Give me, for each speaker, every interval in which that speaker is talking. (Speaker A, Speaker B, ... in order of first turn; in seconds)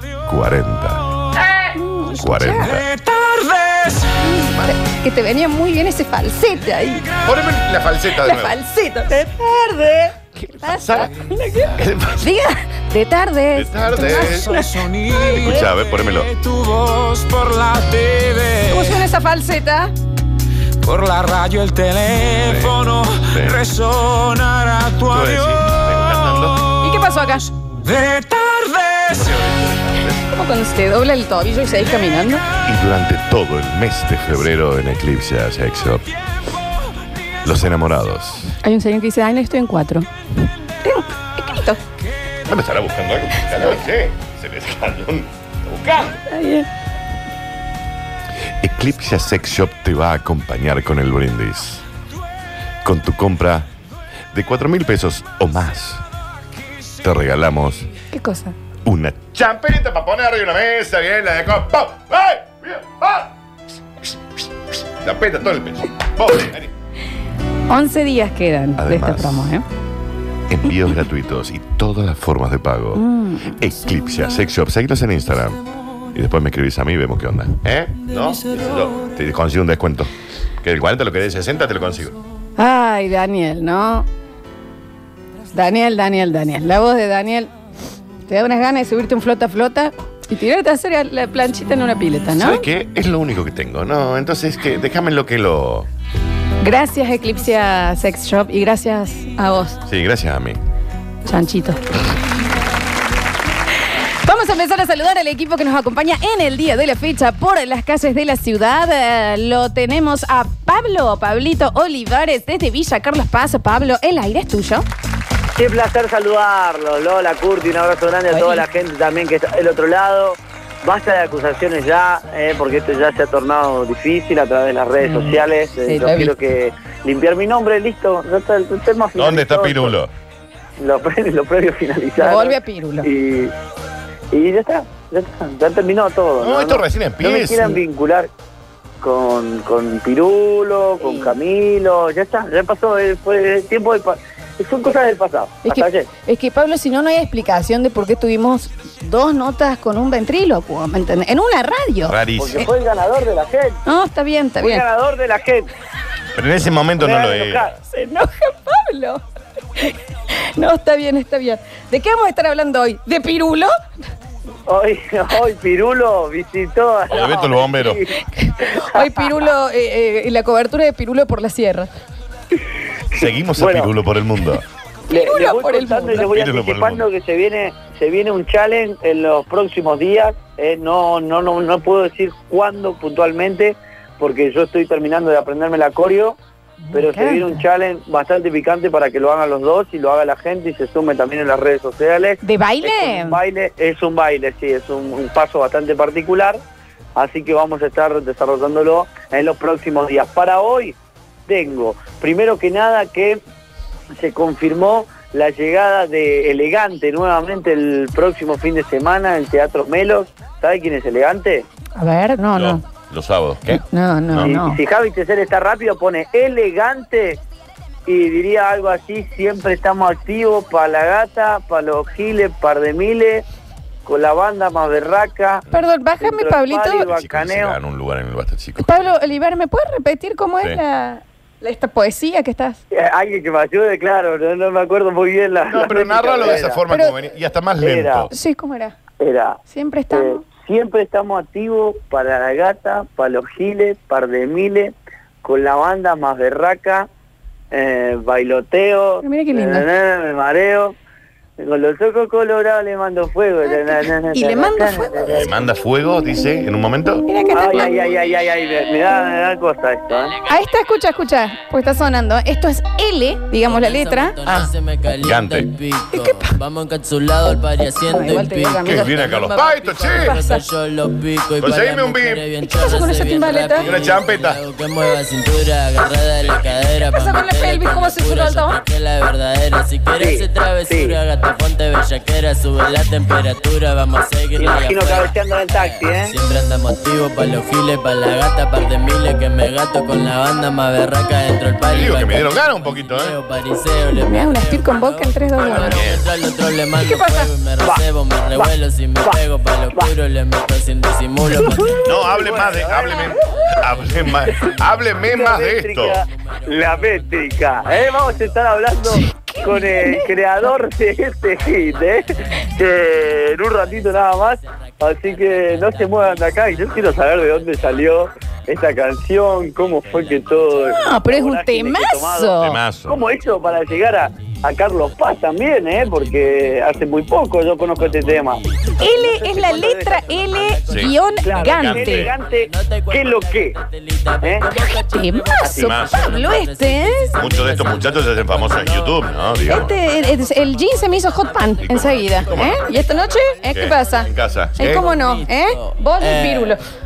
Speaker A: 0.2-2.8, 7.2-8.6, 10.6-11.1, 11.7-12.3, 13.5-14.5, 15.3-16.3, 22.4-22.8, 23.3-23.6, 25.1-26.6, 29.1-30.3, 32.6-36.1, 37.4-38.5, 42.5-46.2, 48.6-51.8, 52.8-53.7, 54.3-56.0, 57.0-57.9, 58.9-63.3, 65.0-66.7, 68.8-69.5, 70.5-75.6, 76.1-80.1, 80.6-82.2, 92.3-95.9, 99.9-100.6, 129.2-130.1, 136.4-137.8, 152.0-152.7, 156.3-157.7, 167.1-168.0, 173.1-174.6, 176.2-177.1, 212.5-214.5, 227.0-229.1, 235.7-238.3, 255.3-257.2, 265.2-265.7, 268.8-270.3, 271.6-272.4, 273.8-274.6, 291.9-293.3, 295.6-296.2, 302.0-306.2, 322.6-323.2, 330.9-331.1, 331.7-332.3, 335.8-336.2, 337.4-339.9, 341.8-342.8, 343.7-345.0
Speaker B: 1.8-2.8, 4.2-7.1, 8.2-15.6, 18.7-19.9, 26.8-27.5, 30.3-32.4, 38.6-40.1, 40.8-41.8, 46.3-46.7, 58.1-58.5, 67.7-69.6, 73.0-73.5, 82.6-84.1, 85.5-87.5, 88.3-92.6, 96.6-99.8, 101.2-101.8, 104.2-114.8, 118.3-118.6, 125.0-126.3, 132.2-133.1, 141.0-141.3, 145.6-152.7, 153.8-154.8, 157.9-159.2, 160.5-163.7, 168.3-171.9, 175.1-176.3, 186.9-187.6, 192.4-193.4, 211.9-212.8, 213.8-214.8, 225.7-227.1, 228.8-232.8, 236.9-237.2, 238.3-238.9, 239.7-240.4, 249.2-249.9, 253.6-255.5, 257.3-258.1, 260.5-264.4, 266.1-266.6, 268.1-269.2, 270.2-270.6, 272.6-273.9, 277.1-278.8, 294.1-296.0, 297.0-297.5, 309.1-310.7, 320.9-322.8, 329.0-332.3, 335.1-337.3, 339.6-346.8
Speaker C: 2.7-4.1, 13.9-19.0, 20.8-25.7, 27.8-29.3
Speaker D: 115.6-130.0, 130.8-133.5, 134.3-138.3, 139.0-146.1, 152.4-153.8, 154.6-155.7, 157.0-157.8, 164.7-169.5, 173.2-173.9, 175.1-186.4, 186.9-196.6, 197.2-200.9, 201.5-203.4, 204.2-211.7, 214.4-217.4, 218.1-223.4, 224.0-225.7, 226.2-227.8, 232.9-236.8, 237.8-238.3, 239.2-239.6, 240.1-247.1, 247.7-250.9, 251.6-255.5, 257.5-260.4, 280.2-281.2, 284.6-286.3, 302.1-303.3, 305.2-330.2, 331.4-333.8, 334.4-334.7
Speaker E: 263.6-302.0, 304.2-305.0, 306.0-308.6, 314.6-317.0, 327.9-331.2, 332.2-346.8